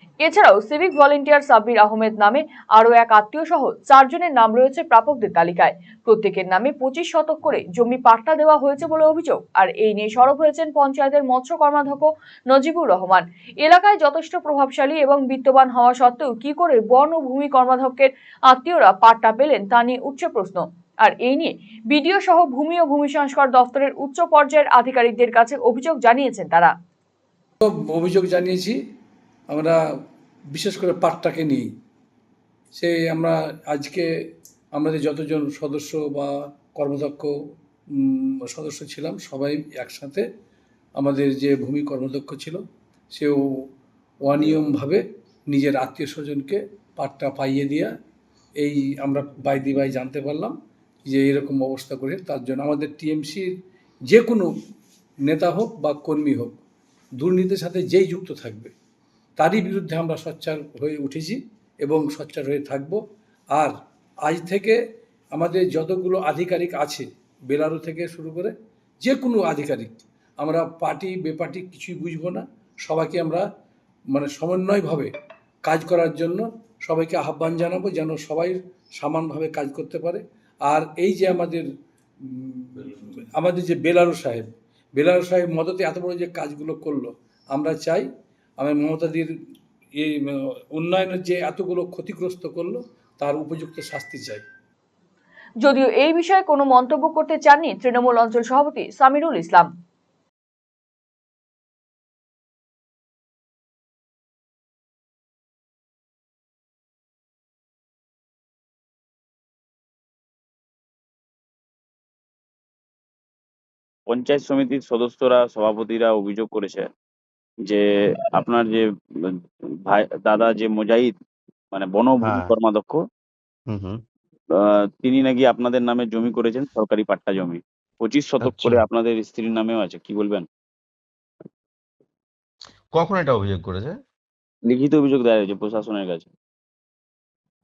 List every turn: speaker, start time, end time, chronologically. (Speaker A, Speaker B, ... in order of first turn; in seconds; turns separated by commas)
Speaker A: 0.2-26.7, Speaker B: 27.6-28.8, Speaker B: 29.5-29.8, Speaker B: 30.5-31.7, Speaker B: 32.7-34.1, Speaker B: 34.8-37.3, Speaker B: 38.0-40.3, Speaker B: 41.0-42.6, Speaker B: 43.1-43.4, Speaker B: 44.2-47.9, Speaker B: 48.6-50.5, Speaker B: 51.1-53.5, Speaker B: 54.1-54.5, Speaker B: 55.2-56.6, Speaker B: 57.2-58.7, Speaker B: 59.4-63.0, Speaker B: 63.5-64.8, Speaker B: 65.3-73.5, Speaker B: 74.1-75.1, Speaker B: 75.7-81.7, Speaker B: 82.3-88.1, Speaker B: 88.6-89.3, Speaker B: 90.0-94.4, Speaker A: 95.6-99.7, Speaker C: 114.1-116.9, Speaker C: 117.7-119.3, Speaker C: 119.9-121.1, Speaker C: 121.7-123.0, Speaker D: 122.2-122.5, Speaker D: 123.7-124.0, Speaker C: 124.6-130.4, Speaker D: 128.4-128.8, Speaker D: 132.9-134.0, Speaker C: 134.7-136.3